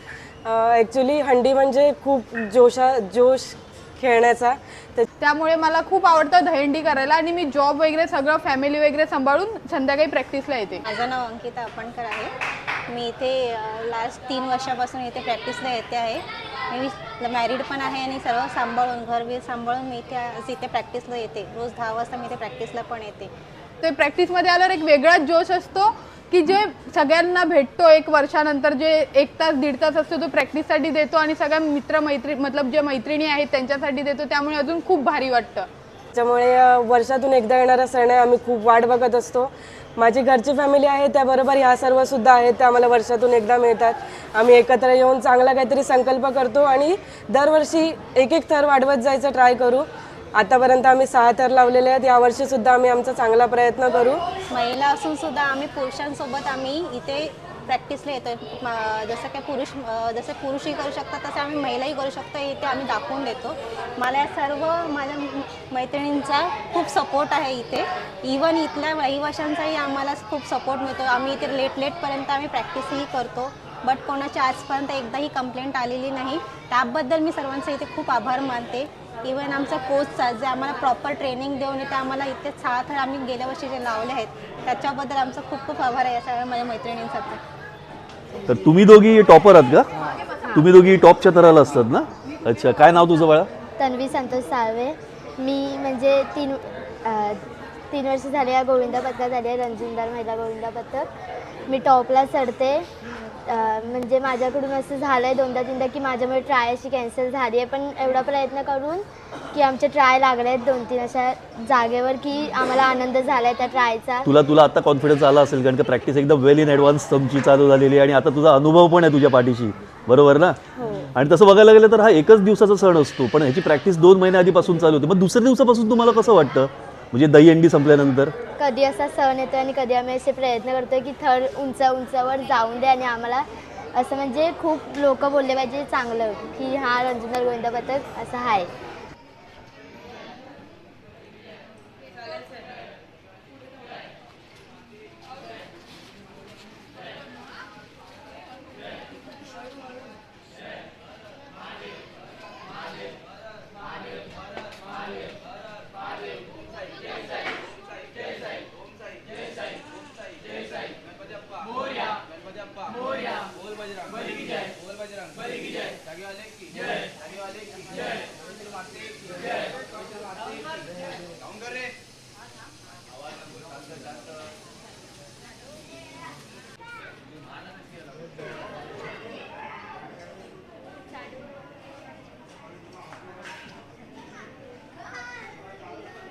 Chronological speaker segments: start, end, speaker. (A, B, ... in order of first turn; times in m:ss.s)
0:00.4-0:05.1 A
0:05.2-0:10.8 B
0:10.8-0:12.3 C
0:12.9-0:23.3 C
0:23.8-0:35.7 B
0:36.1-0:54.2 A
0:54.5-1:27.4 C
1:28.5-1:29.9 D
1:30.5-1:33.5 D
1:33.8-1:37.4 E
1:37.9-1:41.1 E
1:41.7-1:42.8 E
1:43.5-1:49.0 E
1:49.5-1:54.3 E
1:54.2-2:00.6 D
2:00.8-2:01.0 E
2:01.1-2:08.3 D
2:08.6-2:18.7 E